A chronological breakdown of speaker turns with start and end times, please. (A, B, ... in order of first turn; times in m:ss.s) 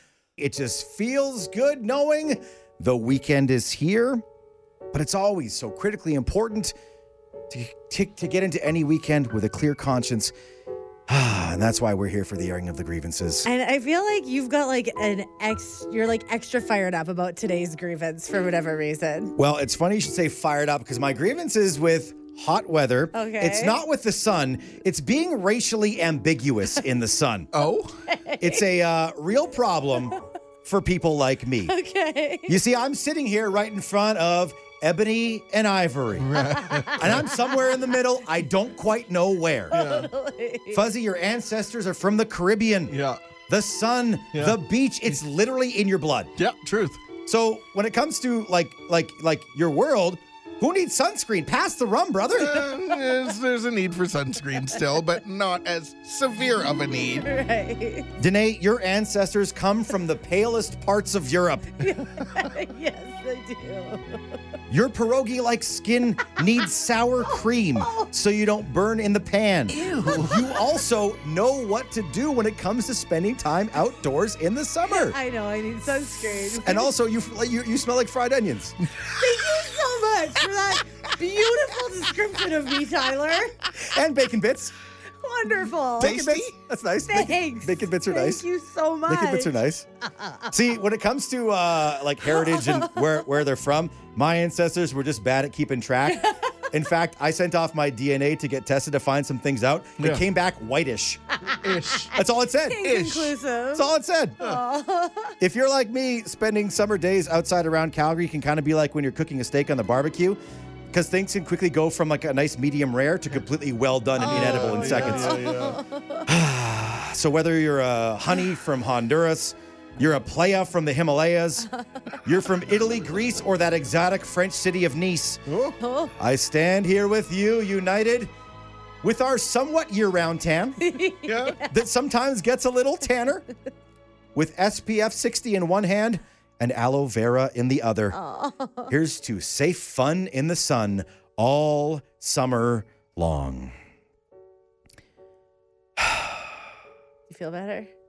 0:00.4-0:04.2 A
0:04.9-0:06.7 A
0:07.5-0:10.3 A
0:11.1-0:13.5 A
0:13.4-0:19.3 B
0:19.4-0:27.5 A
0:23.1-0:23.8 B
0:27.5-0:28.0 C
0:28.1-0:28.6 B
0:28.4-0:31.7 A
0:31.7-0:32.5 B
0:32.5-0:36.4 A
0:36.2-0:37.3 C
0:36.6-0:37.8 B
0:36.9-0:39.9 A
0:39.7-0:40.1 C
0:39.7-0:40.8 B
0:40.7-0:43.0 A
0:42.9-0:43.2 C
0:43.5-0:46.3 A
0:46.4-0:47.0 C
0:47.2-0:52.7 A
0:52.4-0:57.2 C
0:57.2-0:58.1 B
0:58.2-1:01.7 A
1:01.8-1:04.2 B
1:04.7-1:15.2 A
1:07.8-1:08.1 B
1:09.7-1:10.4 C
1:10.1-1:10.4 B
1:14.9-1:16.9 B
1:16.6-1:18.8 A
1:19.1-1:23.6 B
1:23.7-1:24.7 A
1:25.2-1:26.2 B
1:26.0-1:26.5 C
1:26.0-1:28.4 A
1:27.1-1:29.5 B
1:29.0-1:29.8 A
1:30.5-1:41.2 A
1:32.4-1:32.8 B
1:36.1-1:36.4 B
1:41.6-1:42.1 C
1:42.1-1:42.9 A
1:42.6-1:45.3 B
1:42.8-1:43.3 C
1:43.7-1:44.4 A
1:45.4-1:50.4 A
1:50.9-1:55.4 A
1:54.2-1:56.3 B
1:54.2-1:55.8 C
1:56.2-2:01.7 A
2:02.2-2:05.4 A
2:05.5-2:05.8 C
2:05.8-2:06.1 B
2:06.2-2:08.3 A
2:09.0-2:10.9 A
2:10.8-2:11.7 B
2:11.2-2:11.6 C
2:11.7-2:13.5 A
2:14.3-2:18.2 A
2:18.1-2:18.9 B
2:18.9-2:23.7 A
2:26.0-2:26.4 A
2:27.3-2:27.9 B